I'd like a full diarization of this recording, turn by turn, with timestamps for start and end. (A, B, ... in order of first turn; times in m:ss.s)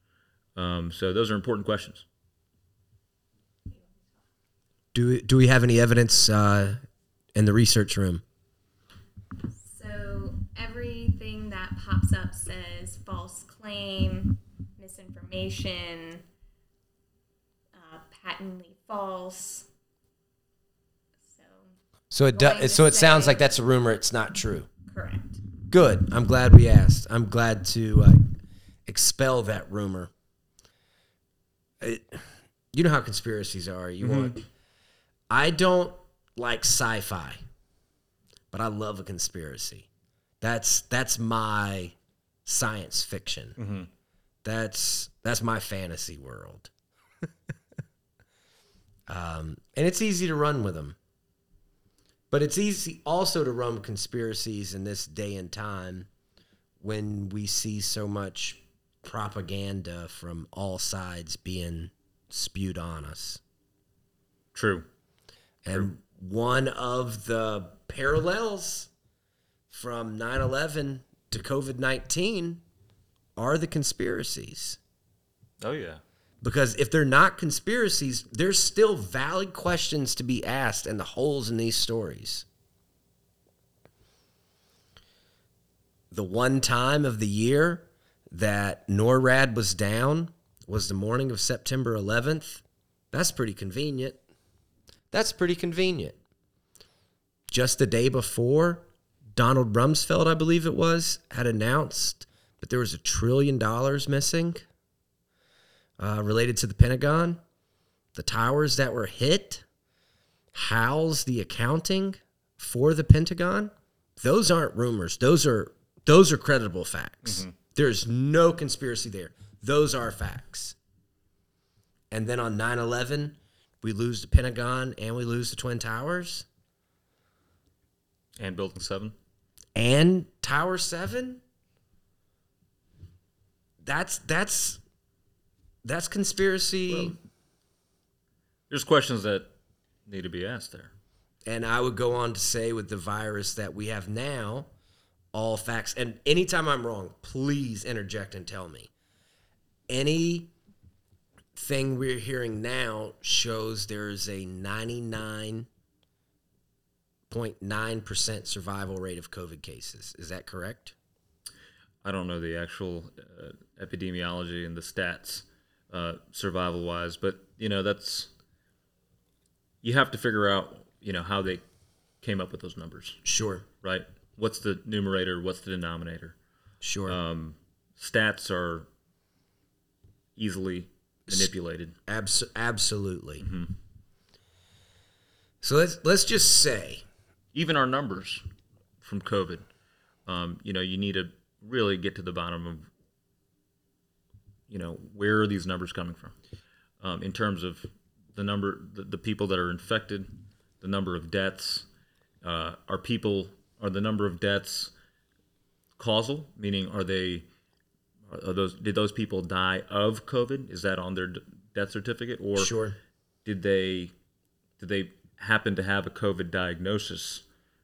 0:00.5-0:02.0 A
0:03.7-0:04.0 B
0:04.9-0:06.8 C
0:07.3-0:08.2 C
0:09.6-0:16.2 B
0:17.7-0:19.7 B
0:21.2-0:21.7 B
0:22.1-0:24.7 C
0:22.3-0:23.4 B
0:24.9-0:25.4 B
0:25.7-0:30.1 C
0:31.8-0:34.4 C
0:34.0-0:34.4 A
0:35.3-0:37.4 C
0:38.5-0:39.9 C
0:40.4-0:41.9 C
0:42.4-0:43.6 C
0:43.6-0:43.9 A
0:44.4-0:46.7 C
0:49.1-0:51.0 C
0:52.3-0:56.1 C
0:56.8-1:03.4 C
1:04.5-1:04.8 A
1:05.6-1:08.9 C
1:09.7-1:12.6 C
1:13.4-1:14.8 C
1:15.6-1:16.0 A
1:16.4-1:22.4 C
1:26.1-1:34.2 C
1:35.1-1:36.2 C
1:37.5-1:44.6 C
1:46.0-1:47.4 C
1:48.2-1:49.6 C
1:50.5-2:00.8 C
1:57.2-1:57.5 A
2:02.1-2:06.5 C
2:08.4-2:09.2 A
2:09.7-2:11.4 C
2:13.8-2:14.8 C
2:15.8-2:17.2 C
2:16.9-2:17.2 A
2:18.7-2:19.5 A
2:20.1-2:20.9 A
2:21.4-2:24.7 C
2:25.3-2:28.9 C
2:29.9-2:30.5 C
2:31.5-2:35.7 C
2:37.3-2:40.9 C
2:42.0-2:48.3 A
2:49.8-2:51.6 A
2:52.2-2:53.2 A
2:53.2-2:53.6 C
2:53.8-2:56.4 A
2:56.8-2:57.2 C
2:57.1-2:58.9 A
3:00.4-3:01.9 A
3:02.1-3:03.4 C
3:03.4-3:03.7 A
3:05.6-3:07.0 C
3:07.5-3:08.4 A
3:09.0-3:09.6 A
3:10.2-3:12.9 A
3:14.7-3:16.3 A
3:17.0-3:21.9 A
3:22.4-3:24.9 A
3:26.0-3:27.4 A
3:28.3-3:32.7 A
3:32.6-3:33.0 C
3:33.4-3:34.1 A
3:34.8-3:37.4 A